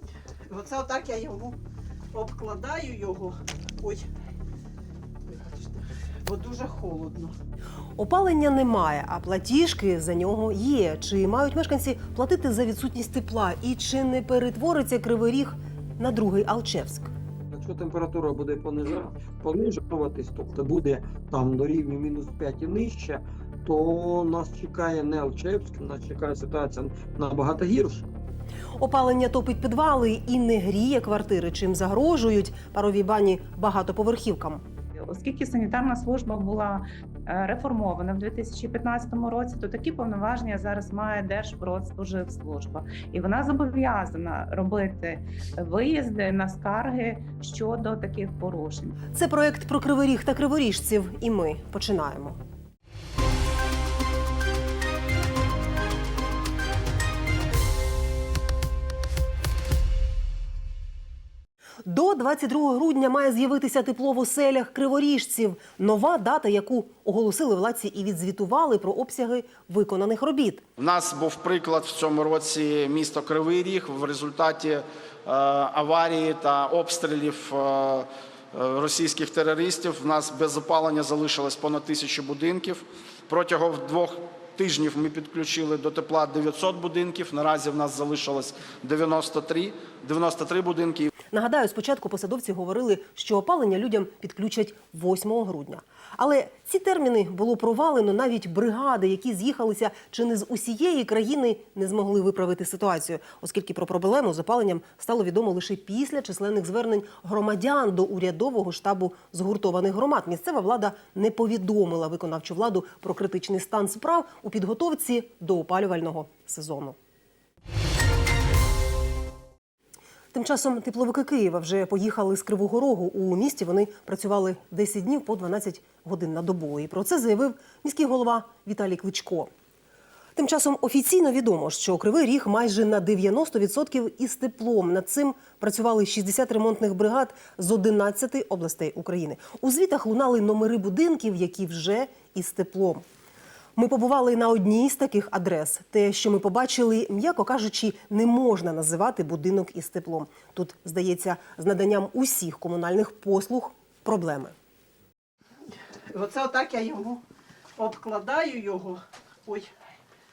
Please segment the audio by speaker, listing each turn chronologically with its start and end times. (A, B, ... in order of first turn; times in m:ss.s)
0:00.5-0:01.6 A
0:02.1-0:04.0 A
0:05.3-0:07.3 A
0:08.0-0:17.1 B
0:17.5-0:28.1 C
0:28.8-0:34.6 B
0:35.0-0:48.9 D
0:49.1-0:52.4 B
1:01.8-1:10.6 B
1:10.8-1:31.1 E
1:31.3-1:57.0 B
2:00.3-2:09.5 B
2:10.4-2:23.0 B
2:23.8-2:34.5 B
2:36.1-2:37.2 A
2:37.8-2:39.7 A